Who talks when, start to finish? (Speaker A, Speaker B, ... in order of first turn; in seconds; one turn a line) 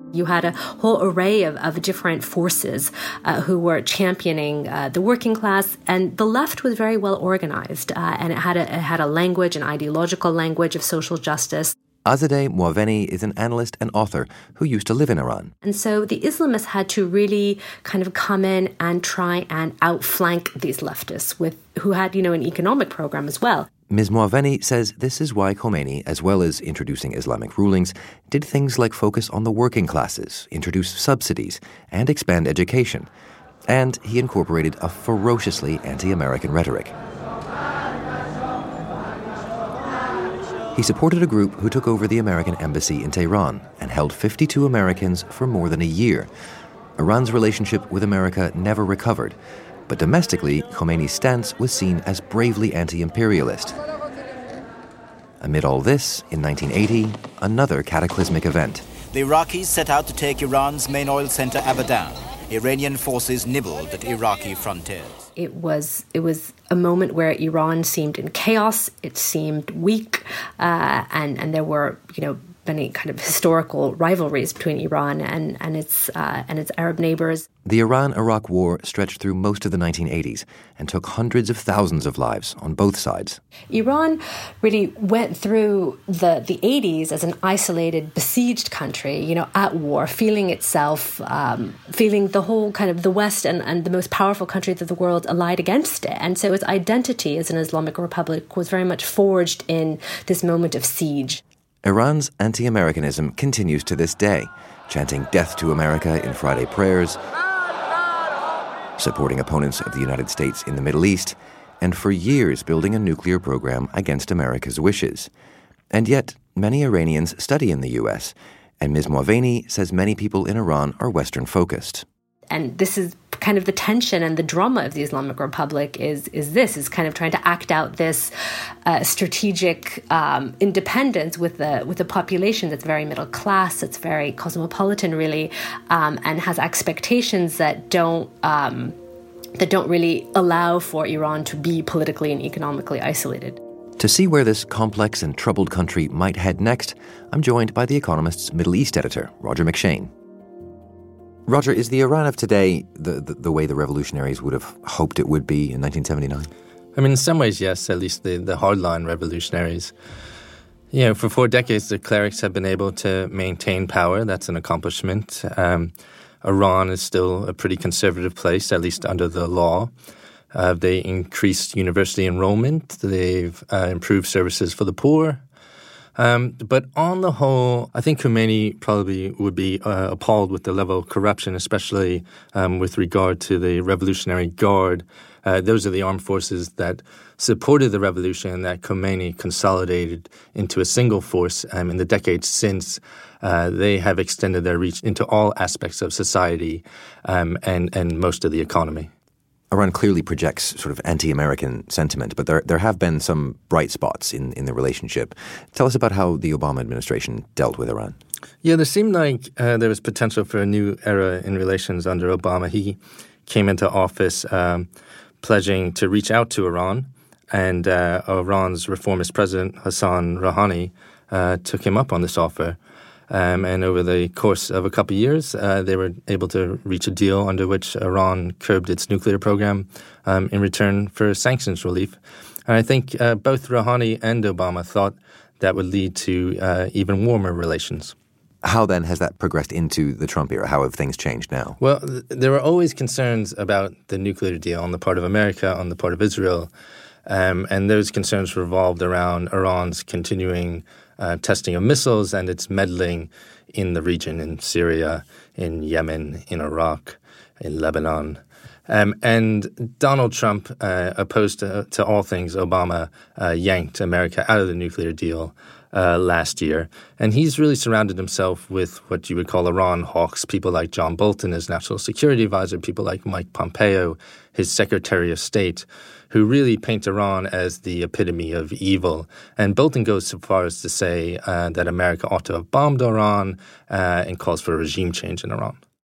Speaker A: 0.1-11.7
Speaker B: 12.0-15.5
Speaker A: 15.6-23.7
Speaker B: 23.9-33.1
Speaker B: 33.7-37.0
Speaker B: 40.7-46.3
Speaker B: 47.0-49.4
Speaker B: 49.9-53.8
Speaker B: 55.4-58.9
Speaker C: 59.1-65.2
Speaker A: 65.3-77.5
Speaker B: 77.6-83.4
Speaker A: 83.7-101.4
Speaker B: 101.8-107.2
Speaker B: 109.0-115.3
Speaker B: 115.9-122.0
Speaker A: 122.5-128.3
Speaker A: 128.8-138.9
Speaker A: 139.6-143.6
Speaker B: 144.0-150.1
Speaker B: 151.4-156.5
Speaker D: 156.9-159.9
Speaker D: 160.9-169.9
Speaker D: 170.5-175.4
Speaker D: 176.2-199.1
Speaker B: 199.7-208.2
Speaker D: 208.6-214.9
Speaker D: 215.4-222.8
Speaker D: 223.3-232.2
Speaker D: 232.7-238.1
Speaker B: 238.6-241.8
Speaker D: 241.8-246.7
Speaker D: 247.2-285.8